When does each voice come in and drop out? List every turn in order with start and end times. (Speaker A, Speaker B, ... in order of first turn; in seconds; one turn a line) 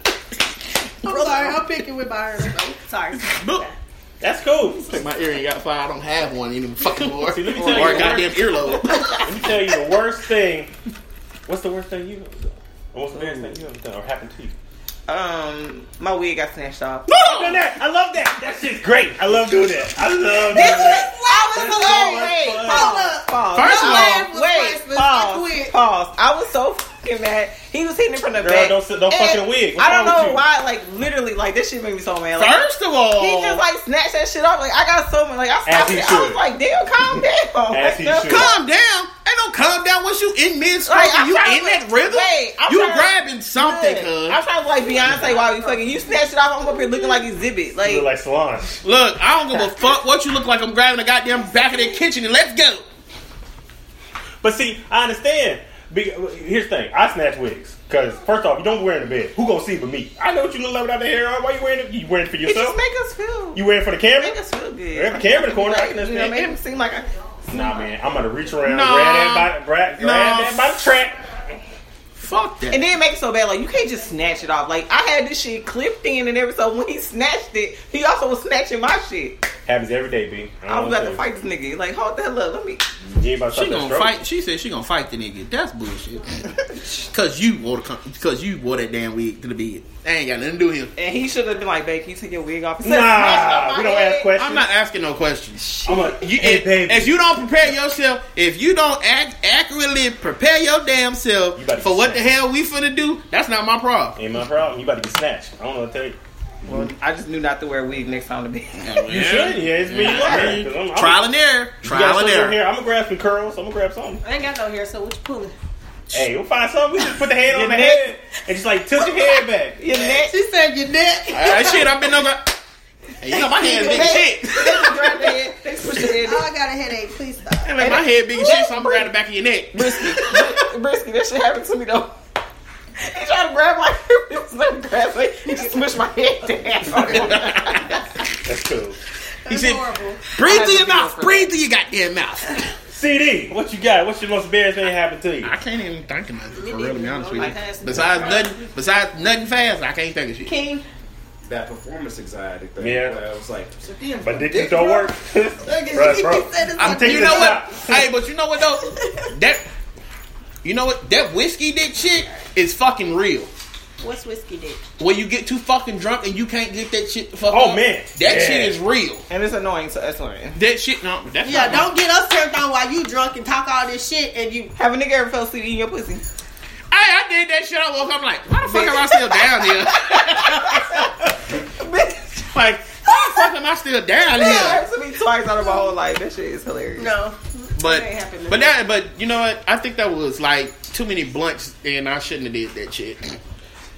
Speaker A: 1.0-3.7
Speaker B: 3.1-3.6
Speaker C: 4.2-5.0
Speaker B: 4.7-9.4
Speaker C: 7.2-8.5
Speaker D: 7.6-8.1
Speaker C: 9.1-10.7
Speaker C: 11.5-14.5
Speaker B: 13.1-13.5
Speaker D: 15.1-17.2
Speaker B: 17.1-17.6
Speaker C: 17.2-23.0
Speaker D: 20.5-32.6
Speaker A: 20.5-25.7
Speaker B: 23.5-24.3
Speaker C: 28.4-30.4
Speaker B: 32.4-33.6
Speaker D: 33.1-38.5
Speaker C: 35.6-36.4
Speaker C: 37.1-38.5
Speaker B: 38.2-44.4
Speaker D: 40.9-48.0
Speaker A: 45.2-45.7
Speaker C: 47.8-48.8
Speaker B: 48.8-52.8
Speaker C: 54.4-62.8
Speaker D: 62.5-63.6
Speaker C: 63.5-64.4
Speaker D: 64.2-67.8
Speaker C: 64.9-66.5
Speaker C: 67.5-71.6
Speaker B: 68.6-70.8
Speaker B: 72.2-72.8
Speaker D: 72.7-79.5
Speaker C: 79.7-81.2
Speaker D: 80.7-82.8
Speaker C: 83.0-84.2
Speaker B: 83.5-90.9
Speaker D: 91.0-94.3
Speaker C: 92.8-94.7
Speaker B: 94.3-104.2
Speaker C: 95.8-97.7
Speaker C: 101.5-102.3
Speaker C: 104.2-106.9
Speaker D: 106.7-109.0
Speaker B: 108.8-112.6
Speaker C: 109.1-111.2
Speaker C: 111.8-114.2
Speaker A: 114.2-115.5
Speaker C: 116.1-119.8
Speaker D: 117.5-118.0
Speaker D: 119.8-120.3
Speaker A: 120.0-122.0
Speaker B: 121.3-122.5
Speaker B: 123.2-125.2
Speaker D: 123.3-126.5
Speaker A: 126.2-127.9
Speaker B: 127.6-130.5
Speaker D: 127.8-129.1
Speaker D: 129.7-132.1
Speaker D: 133.0-138.0
Speaker B: 136.9-138.0
Speaker C: 138.4-139.0
Speaker A: 139.4-140.2
Speaker B: 139.5-142.6
Speaker D: 140.4-141.5
Speaker C: 142.9-145.5
Speaker B: 145.4-150.6
Speaker A: 146.5-148.5
Speaker A: 150.4-150.8
Speaker E: 151.4-155.1
Speaker C: 152.8-153.2
Speaker C: 154.2-158.1
Speaker E: 155.6-156.1
Speaker A: 155.7-157.8
Speaker B: 156.8-159.6
Speaker A: 158.8-159.3
Speaker B: 160.6-163.5
Speaker A: 164.0-164.8
Speaker B: 165.0-169.2
Speaker C: 167.5-168.8
Speaker D: 169.3-170.6
Speaker B: 170.5-171.9
Speaker A: 171.4-174.7
Speaker D: 174.8-176.2
Speaker B: 176.9-181.3
Speaker D: 178.6-182.5
Speaker B: 182.5-184.8
Speaker D: 183.1-183.5
Speaker D: 184.3-187.1
Speaker A: 187.0-188.8
Speaker B: 187.8-193.4